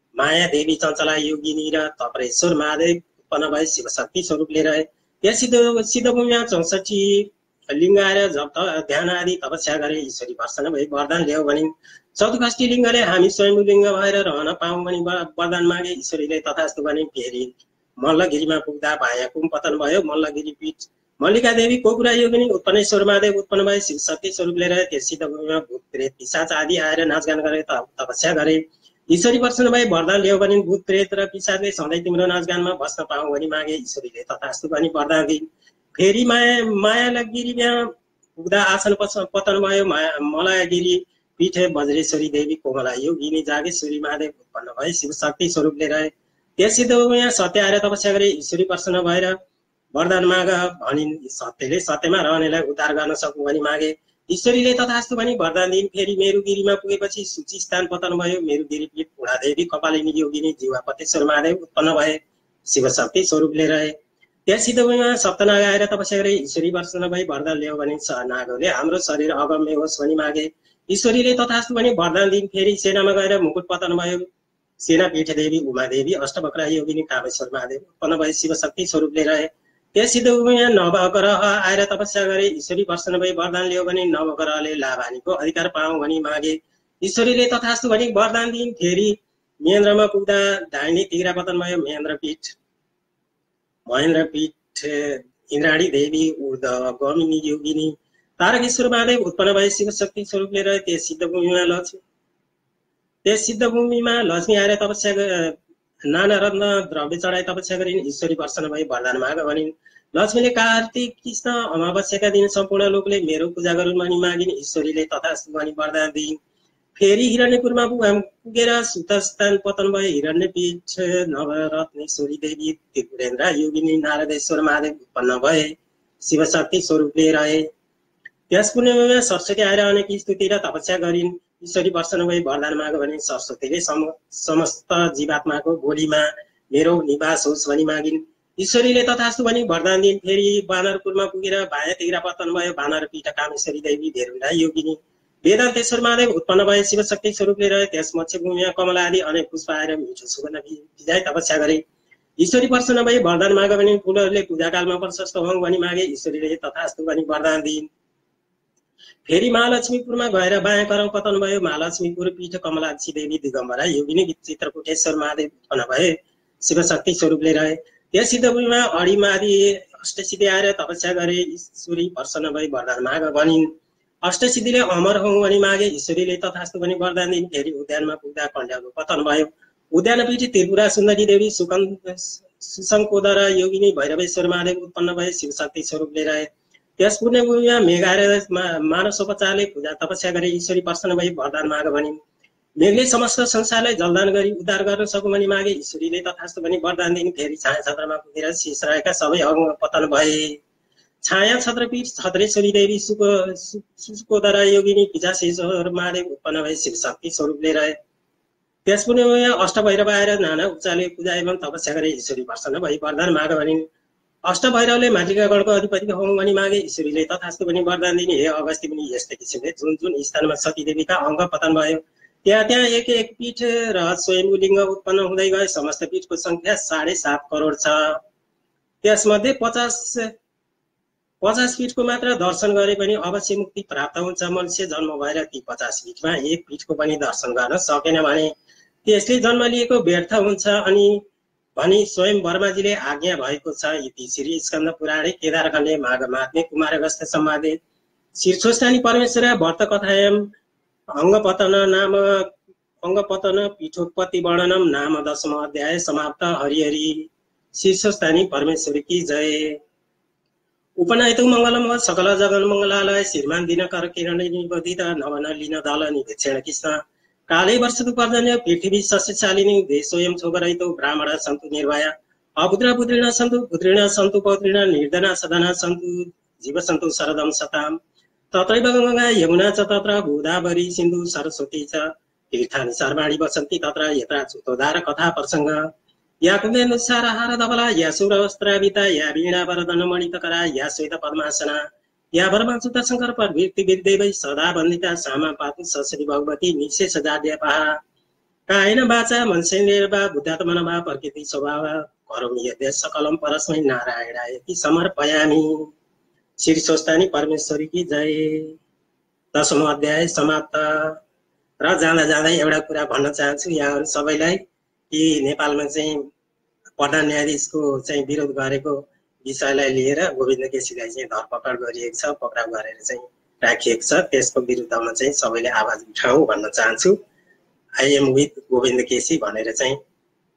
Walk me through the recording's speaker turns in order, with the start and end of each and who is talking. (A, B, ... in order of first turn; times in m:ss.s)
0:00.2-0:49.4 A
0:49.9-1:03.9 A
1:04.5-1:14.2 A
1:14.8-1:32.6 A
1:33.9-1:42.0 A
1:43.2-1:45.6 A
1:46.1-1:56.4 A
1:57.0-2:07.7 A
2:08.5-2:31.8 A
2:32.4-2:37.9 A
2:39.2-2:53.7 A
2:54.2-3:06.5 A
3:07.0-3:12.2 A
3:12.8-3:20.6 A
3:21.2-3:28.0 A
3:28.8-3:33.8 A
3:34.4-3:48.2 A
3:49.0-3:50.3 A
3:51.4-3:58.5 A
3:59.0-4:01.2 A
4:01.8-4:07.8 A
4:08.4-4:10.4 A
4:11.2-4:12.5 A
4:13.0-4:19.8 A
4:21.0-4:38.0 A
4:38.5-4:45.9 A
4:46.4-4:51.8 A
4:52.3-4:58.0 A
4:58.7-5:05.9 A
5:06.6-5:08.8 A
5:09.5-5:11.2 A
5:11.8-5:14.6 A
5:15.1-5:16.2 A
5:17.0-5:27.2 A
5:28.0-5:30.0 A